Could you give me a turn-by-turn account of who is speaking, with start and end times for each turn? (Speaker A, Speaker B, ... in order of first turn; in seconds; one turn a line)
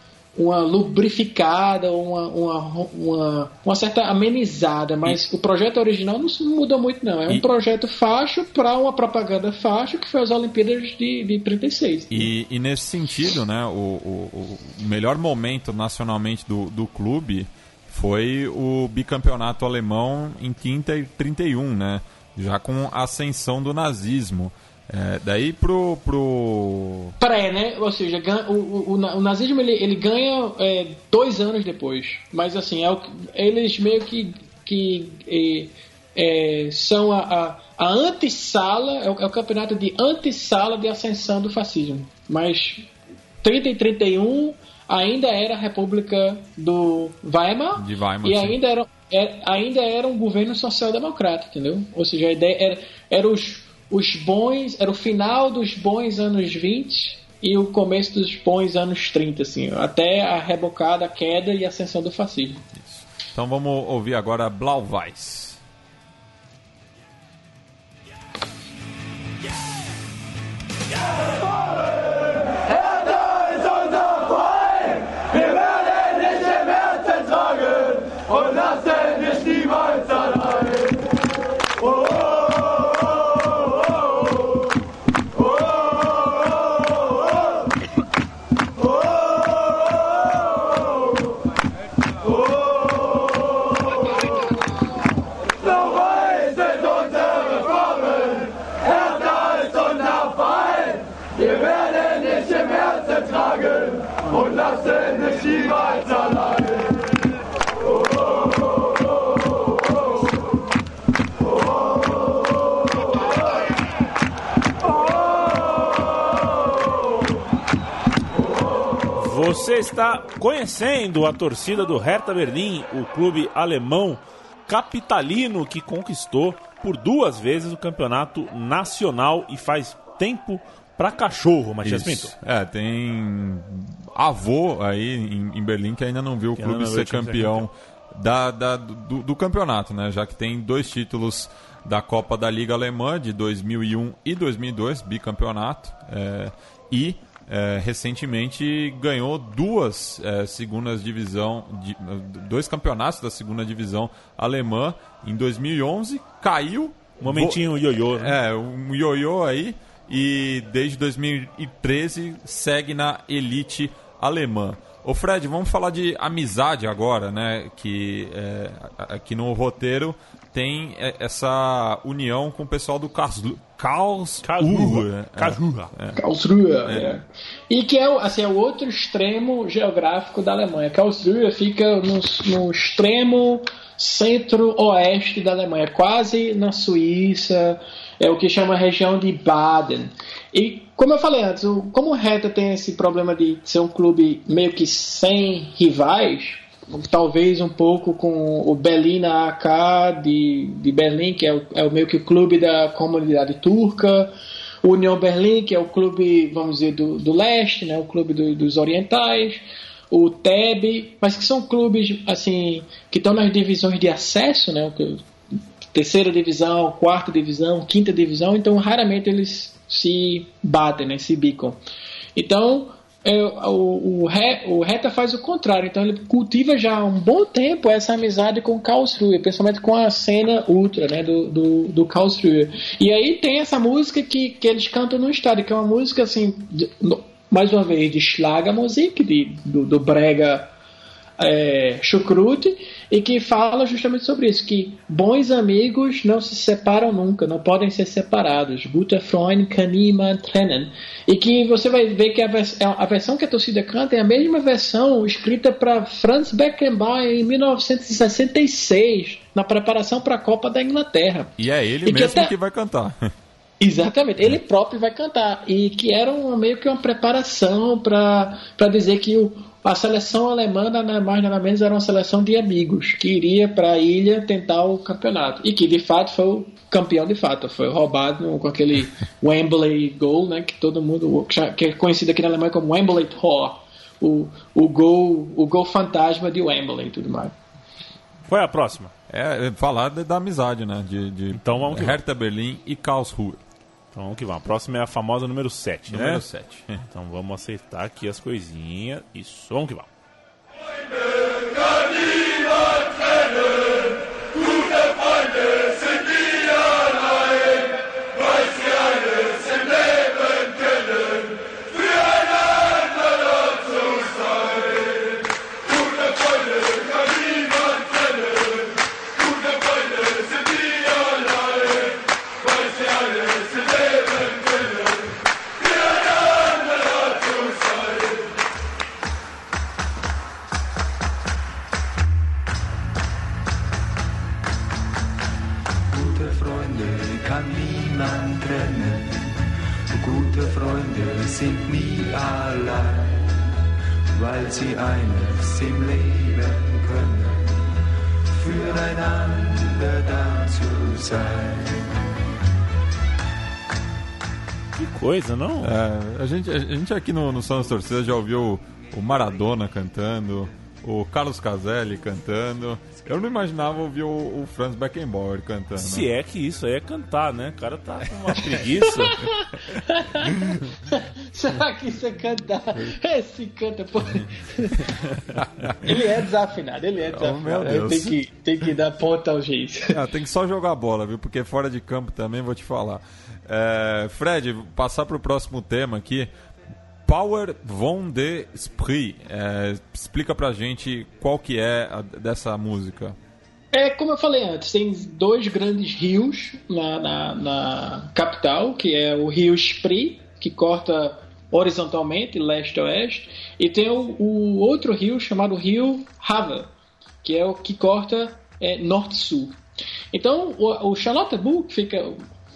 Speaker A: 0.3-12.3
Speaker B: 12.1-27.1
Speaker A: 27.2-42.9
Speaker A: 43.4-62.6
Speaker B: 47.7-48.6
Speaker B: 62.8-65.6
Speaker C: 119.1-132.3
Speaker B: 131.8-176.2
Speaker C: 136.6-137.7
Speaker C: 157.2-158.4
Speaker C: 174.4-175.9
Speaker A: 176.2-215.2
Speaker A: 215.9-221.8
Speaker A: 222.3-240.7
Speaker A: 241.4-262.5
Speaker B: 261.6-263.3
Speaker A: 263.8-287.5
Speaker C: 288.5-289.1
Speaker B: 289.3-293.6
Speaker C: 291.5-292.2
Speaker C: 294.1-296.4
Speaker B: 296.1-297.0
Speaker C: 297.1-300.1
Speaker D: 336.1-339.5
Speaker D: 340.2-343.4
Speaker D: 344.4-347.6
Speaker D: 348.5-352.0
Speaker C: 355.0-355.9
Speaker B: 355.8-366.3
Speaker C: 366.0-369.5
Speaker A: 369.3-375.1
Speaker B: 375.6-376.2
Speaker A: 376.0-380.2
Speaker B: 377.2-378.4
Speaker B: 380.1-386.5
Speaker B: 387.2-393.4
Speaker A: 393.9-406.9
Speaker A: 407.4-409.8
Speaker A: 410.3-412.4